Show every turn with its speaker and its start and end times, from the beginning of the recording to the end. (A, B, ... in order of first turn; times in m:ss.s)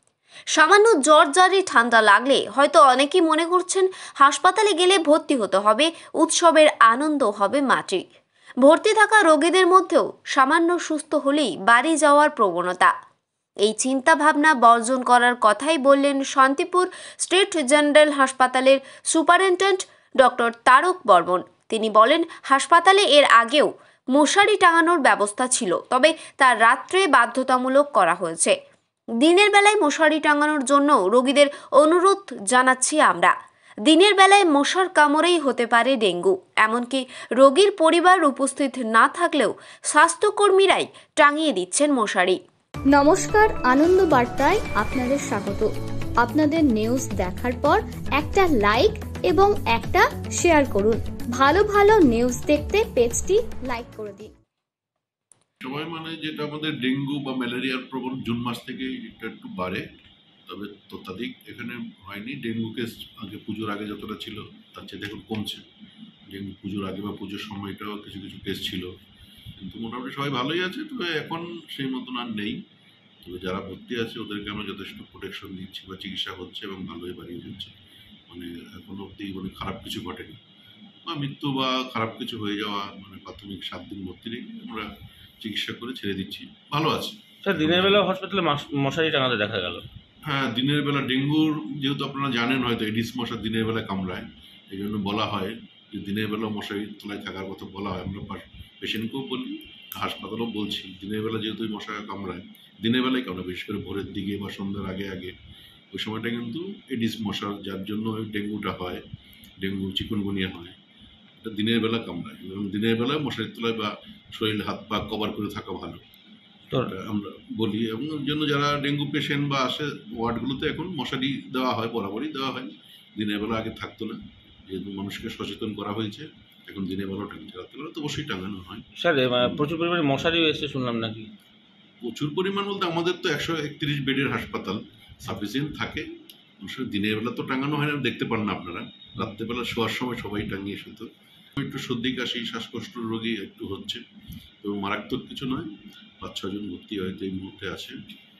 0:00.6-0:08.0 A
0:08.6-0:12.9 A
0:13.6-0:28.5 A
0:29.2-0:33.3 A
0:33.9-0:42.4 A
0:42.9-0:45.7 B
0:46.2-0:54.3 B
0:55.6-0:59.8 C
1:00.5-1:05.6 C
1:06.3-1:08.9 C
1:09.6-1:12.6 C
1:13.2-1:17.7 C
1:18.3-1:20.4 C
1:21.0-1:24.9 C
1:25.4-1:28.0 C
1:27.4-1:29.8 D
1:30.2-1:45.3 C
1:45.9-1:49.0 C
1:49.6-1:50.8 C
1:51.4-1:56.0 C
1:56.8-2:08.8 C
2:09.0-2:11.3 D
2:12.0-2:16.1 C
2:16.6-2:21.1 C
2:21.6-2:24.0 C
2:24.6-2:25.7 C
2:26.2-2:28.0 C